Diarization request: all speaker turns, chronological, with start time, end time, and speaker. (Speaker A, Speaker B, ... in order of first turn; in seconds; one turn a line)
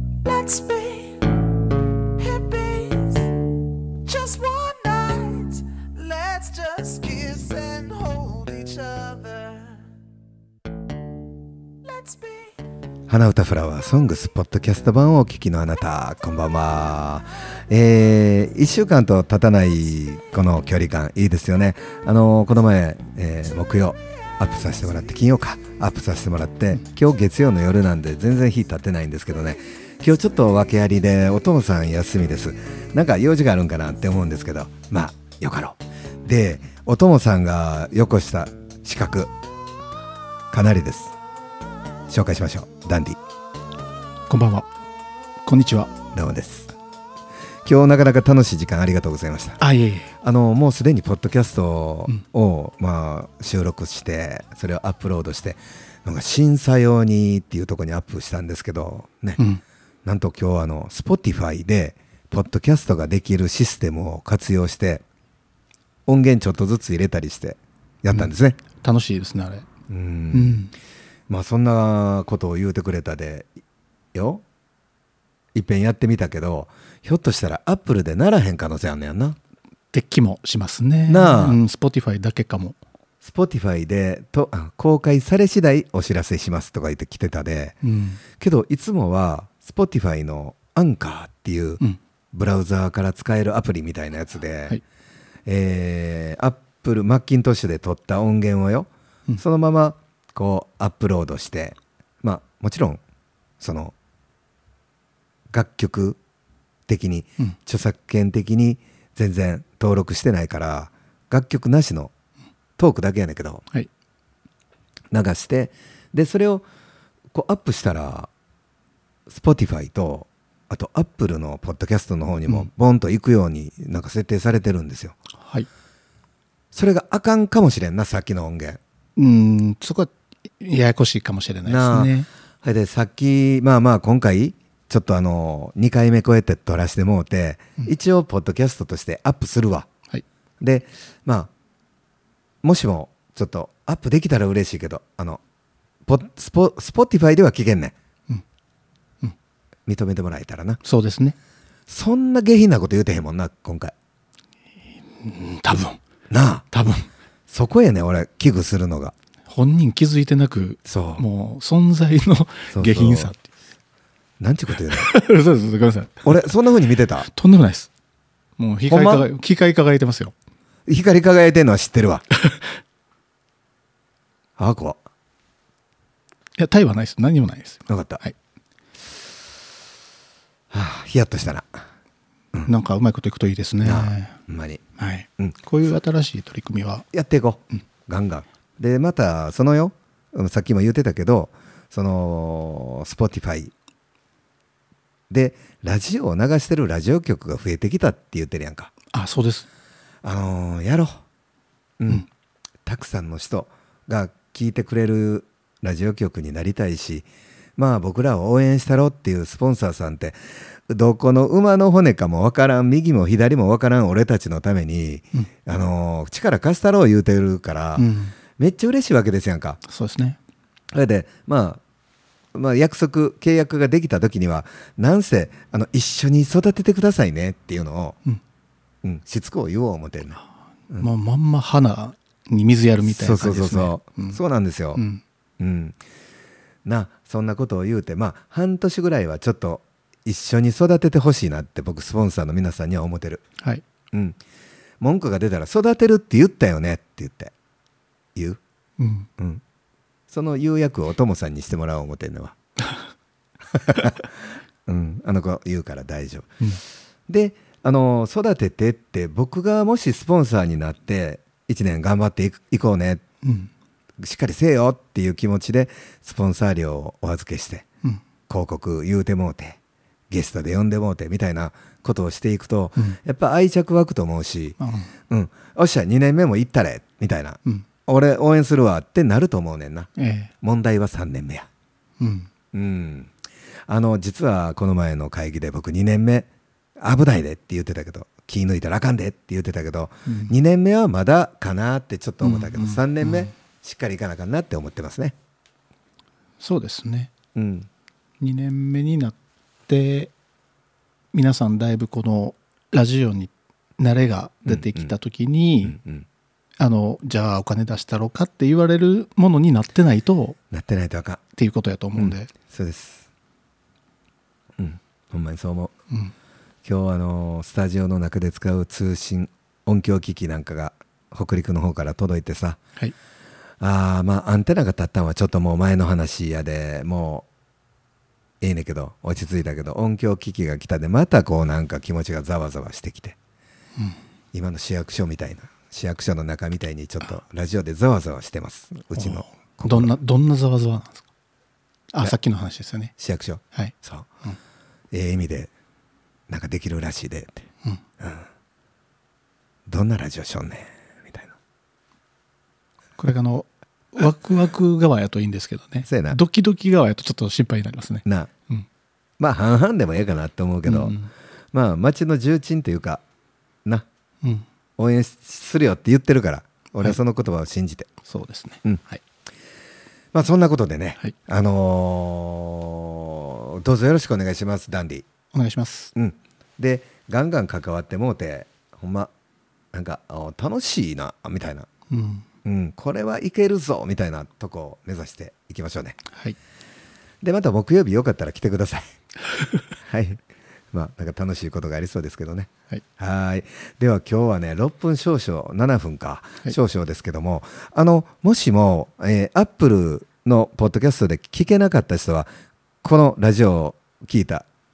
Speaker A: 0.2-1.4
Speaker A: 2.2-9.8
Speaker A: 11.9-12.5
Speaker B: 13.1-39.3
Speaker B: 40.5-41.1
Speaker B: 42.1-43.2
Speaker C: 44.3-44.7
Speaker C: 45.5-45.9
Speaker B: 46.1-46.7
Speaker B: 47.6-49.6
Speaker C: 49.6-50.1
Speaker B: 50.2-59.4
Speaker B: 60.0-65.0
Speaker B: 66.1-68.6
Speaker C: 68.8-69.7
Speaker B: 69.9-70.6
Speaker C: 70.3-70.7
Speaker B: 71.3-73.5
Speaker B: 74.1-74.4
Speaker B: 75.5-79.4
Speaker C: 79.9-82.8
Speaker B: 81.1-81.6
Speaker B: 83.2-87.8
Speaker C: 87.8-88.2
Speaker B: 88.4-91.8
Speaker B: 92.3-94.8
Speaker B: 95.5-103.0
Speaker B: 103.6-103.9
Speaker B: 105.5-106.2
Speaker B: 106.9-112.1
Speaker B: 112.8-113.7
Speaker B: 115.1-116.7
Speaker B: 117.3-118.3
Speaker B: 119.3-125.2
Speaker C: 125.4-125.7
Speaker B: 126.7-128.8
Speaker C: 129.2-132.3
Speaker B: 131.7-139.9
Speaker B: 140.6-141.5
Speaker B: 142.6-145.4
Speaker B: 146.1-147.9
Speaker B: 149.9-150.8
Speaker C: 150.8-151.3
Speaker B: 151.9-153.9
Speaker C: 155.2-156.0
Speaker B: 156.3-156.7
Speaker C: 156.7-157.1
Speaker B: 157.5-159.1
Speaker C: 159.5-163.4
Speaker B: 160.9-161.2
Speaker B: 162.7-163.3
Speaker B: 164.4-165.1
Speaker C: 164.9-166.4
Speaker B: 166.2-167.3
Speaker C: 167.2-167.9
Speaker C: 168.6-170.3
Speaker B: 168.9-169.3
Speaker B: 170.9-172.2
Speaker B: 174.6-175.0
Speaker C: 176.6-178.3
Speaker B: 177.9-178.2
Speaker B: 180.7-181.8
Speaker C: 182.7-184.4
Speaker B: 183.8-184.8
Speaker C: 185.0-187.1
Speaker B: 187.1-193.7
Speaker B: 195.3-198.9
Speaker C: 199.1-199.7
Speaker B: 200.2-201.2
Speaker B: 202.0-202.2
Speaker B: 202.9-210.4
Speaker B: 210.9-219.8
Speaker C: 218.0-218.3
Speaker C: 219.9-220.4
Speaker B: 220.9-221.8
Speaker B: 222.5-228.2
Speaker B: 229.0-230.4
Speaker C: 230.9-234.4
Speaker B: 233.0-235.0
Speaker C: 234.9-235.2
Speaker B: 235.6-236.0
Speaker B: 236.8-243.4
Speaker B: 244.1-244.4
Speaker B: 245.0-247.5
Speaker B: 248.3-248.6
Speaker C: 249.0-249.3
Speaker B: 250.3-252.6
Speaker B: 253.8-254.2
Speaker B: 254.9-256.5
Speaker B: 257.3-263.2
Speaker C: 263.4-263.7
Speaker B: 264.2-267.9
Speaker B: 268.5-269.8
Speaker B: 270.3-274.8
Speaker C: 274.8-275.1
Speaker B: 275.3-280.1
Speaker C: 280.2-280.5
Speaker B: 280.6-281.7
Speaker C: 282.2-282.5
Speaker B: 282.7-283.3
Speaker B: 283.9-286.5
Speaker B: 287.0-295.4
Speaker C: 290.3-290.5
Speaker C: 292.4-293.5
Speaker C: 296.6-297.3
Speaker B: 297.6-297.9
Speaker C: 298.4-299.4
Speaker C: 299.9-300.3
Speaker C: 301.3-306.0
Speaker B: 304.7-305.1
Speaker B: 305.9-306.3
Speaker C: 306.8-310.6
Speaker B: 310.7-311.4
Speaker C: 311.5-312.5
Speaker B: 312.2-313.3
Speaker B: 314.8-315.9
Speaker B: 316.9-322.8
Speaker B: 323.8-327.5
Speaker B: 328.6-333.4
Speaker B: 334.5-340.1
Speaker C: 339.1-341.2
Speaker C: 342.1-343.1
Speaker B: 343.2-344.3
Speaker B: 345.1-345.7
Speaker B: 346.5-347.6
Speaker B: 349.9-351.6
Speaker C: 353.2-358.9
Speaker B: 356.1-356.4
Speaker B: 359.4-361.2
Speaker C: 360.9-361.3
Speaker B: 361.7-363.2
Speaker B: 365.0-368.1
Speaker C: 368.2-369.2
Speaker B: 370.3-375.3
Speaker C: 375.5-376.1
Speaker B: 376.1-379.3
Speaker B: 379.9-381.9
Speaker C: 382.1-382.4
Speaker B: 382.6-386.2
Speaker B: 387.4-389.0
Speaker B: 390.1-390.4
Speaker B: 390.9-402.5
Speaker B: 403.0-404.7